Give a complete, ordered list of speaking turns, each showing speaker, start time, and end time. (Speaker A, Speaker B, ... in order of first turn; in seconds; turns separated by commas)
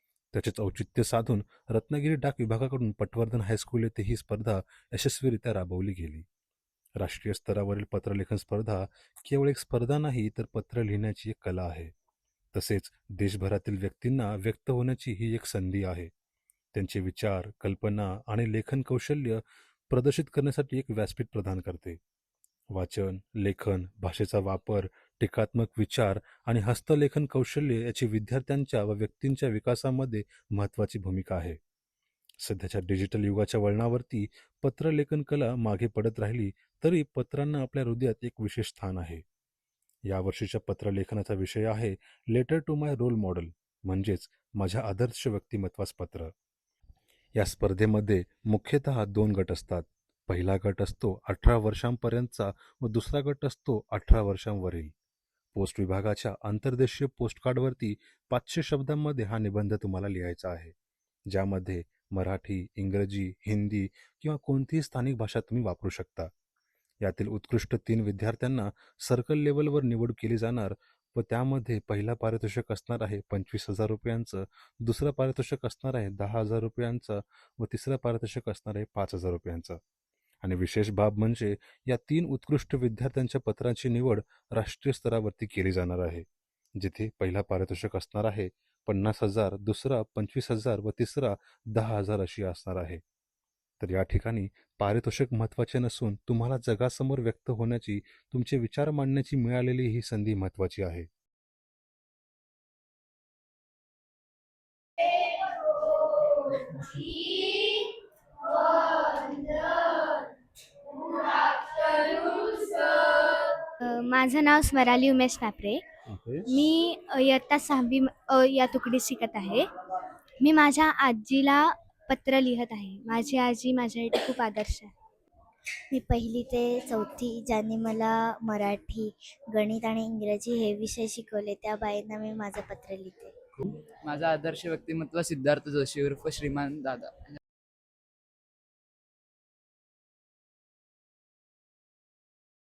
Speaker A: 0.3-6.2, Speaker A: 7.0-11.9, Speaker A: 12.5-16.1, Speaker A: 16.7-22.0, Speaker A: 22.7-31.6, Speaker A: 32.4-39.2, Speaker A: 40.1-46.3, Speaker A: 47.4-54.9, Speaker A: 55.5-60.7, Speaker A: 61.3-66.3, Speaker A: 67.0-79.8, Speaker A: 80.4-86.2, Speaker A: 86.8-93.0, Speaker A: 93.8-101.1, Speaker B: 105.0-110.3, Speaker B: 110.9-115.8, Speaker A: 116.1-116.4, Speaker B: 116.5-119.6, Speaker B: 120.4-124.9, Speaker C: 125.9-133.3, Speaker D: 134.0-137.4